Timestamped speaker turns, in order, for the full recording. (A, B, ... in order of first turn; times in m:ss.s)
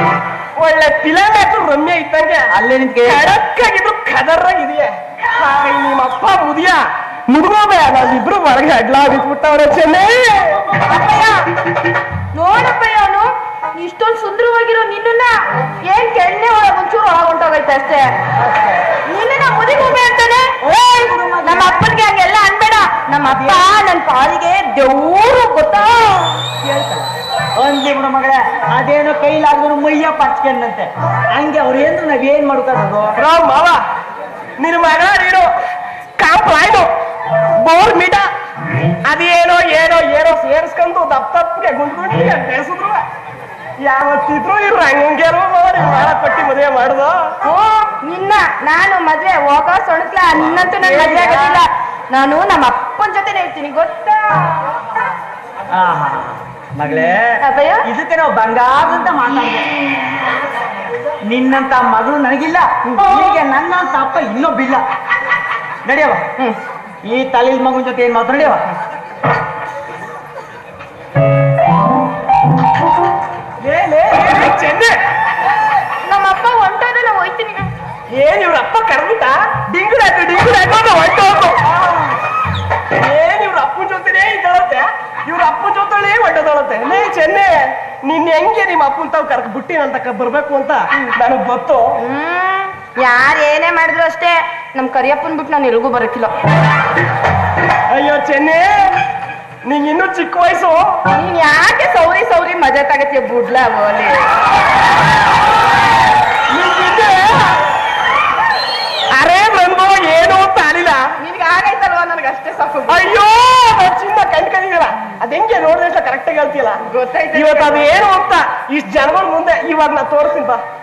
0:00.6-0:02.5 A
0:02.5-0:03.3 B
0:03.0-0:10.7 A
0:10.8-0:11.4 C
0:12.3-0:18.1 C
0:18.4-0:18.8 B
0:19.1-0:20.5 C
0:20.6-0:21.9 B
0:21.4-0:26.4 C
0:23.2-0:23.7 B
0:26.6-0:33.1 B
0:33.2-0:33.8 A
0:34.6-0:35.5 A
0:36.2-0:36.9 A
0:37.6-0:38.3 A
0:39.0-0:43.0 A
0:43.8-0:47.3 A
0:47.4-0:54.7 C
0:50.4-0:51.6 B
0:55.7-0:59.7 B
0:57.4-0:57.9 C
1:01.2-1:04.8 B
1:05.8-1:06.2 B
1:07.0-1:08.6 B
1:13.6-1:15.0 A
1:16.0-1:17.7 C
1:18.1-1:21.7 A
1:23.0-1:31.8 A
1:32.0-1:36.3 C
1:37.9-1:39.0 A
1:39.6-1:41.0 A
1:41.1-1:44.3 C
1:46.5-1:47.6 A
1:49.1-1:51.1 A
1:51.2-1:53.0 C
1:52.9-1:56.8 A
1:56.8-1:58.0 C
1:57.3-2:00.6 A